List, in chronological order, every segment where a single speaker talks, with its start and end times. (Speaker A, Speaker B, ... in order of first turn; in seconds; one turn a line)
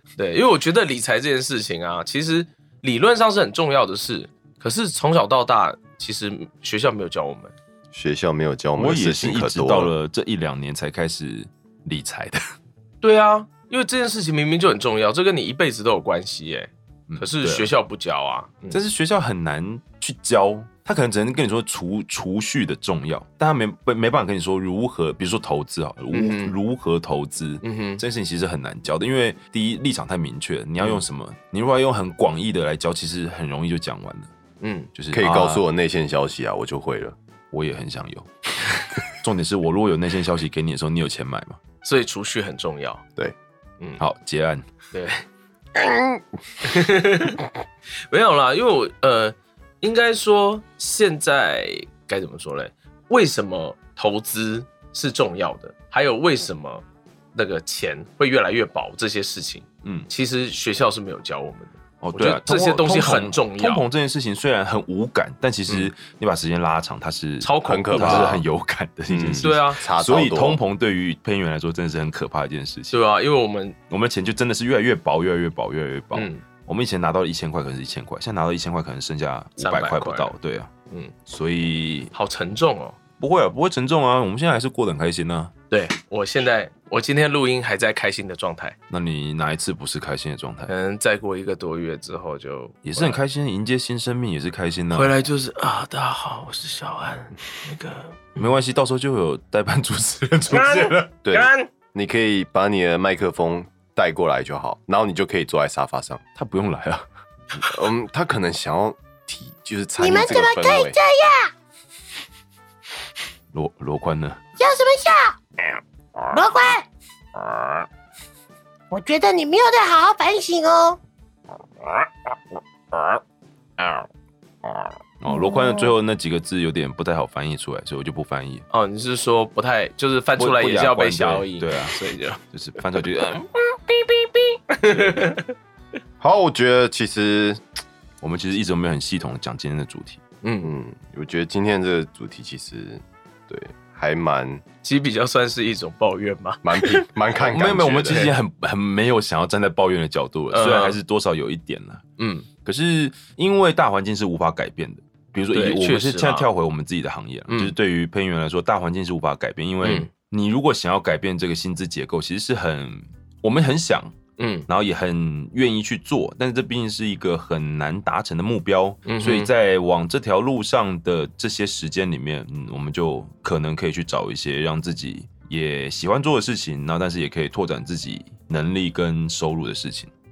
Speaker A: 0.2-7.5
Speaker B: 7.9-9.9
Speaker C: 8.8-12.5
Speaker A: 13.0-18.8
Speaker C: 17.1-17.7
Speaker C: 18.7-34.3
Speaker A: 26.1-26.5
Speaker A: 27.6-28.0
Speaker A: 34.6-34.9
Speaker C: 34.9-35.6
Speaker B: 35.1-37.1
Speaker C: 37.5-38.3
Speaker C: 39.1-41.6
Speaker A: 41.8-43.0
Speaker C: 44.0-44.6
Speaker A: 44.9-45.2
Speaker B: 45.7-46.2
Speaker A: 46.6-47.4
Speaker A: 48.1-63.8
Speaker C: 59.8-60.1
Speaker C: 62.0-73.0
Speaker A: 67.4-68.4
Speaker B: 67.6-68.4
Speaker B: 69.1-70.6
Speaker A: 69.4-69.8
Speaker A: 72.9-73.8
Speaker C: 73.9-80.7
Speaker A: 76.1-76.4
Speaker A: 79.6-80.3
Speaker C: 81.3-82.1
Speaker A: 82.1-83.0
Speaker C: 83.2-85.5
Speaker A: 85.7-88.8
Speaker C: 88.9-90.7
Speaker A: 90.7-93.2
Speaker C: 92.8-95.1
Speaker A: 94.9-98.4
Speaker C: 98.4-101.4
Speaker A: 100.5-101.7
Speaker B: 101.3-106.2
Speaker C: 106.3-107.0
Speaker B: 107.5-111.0
Speaker D: 110.0-111.5
Speaker C: 113.5-114.4
Speaker D: 114.6-115.3
Speaker D: 116.3-116.8
Speaker D: 118.9-121.0
Speaker C: 125.2-128.6
Speaker A: 128.7-132.4
Speaker C: 130.4-132.0
Speaker C: 132.5-133.4
Speaker A: 134.5-135.5
Speaker B: 136.2-137.6
Speaker C: 138.2-140.2
Speaker A: 140.4-140.7
Speaker B: 140.6-144.6
Speaker A: 144.8-147.1
Speaker B: 146.6-148.2
Speaker C: 147.4-152.0
Speaker A: 148.1-148.3
Speaker A: 150.5-151.0
Speaker A: 152.2-152.5
Speaker C: 152.6-180.1
Speaker A: 155.5-156.5
Speaker A: 157.5-157.7
Speaker A: 159.8-160.1
Speaker A: 164.4-164.7
Speaker A: 169.1-169.5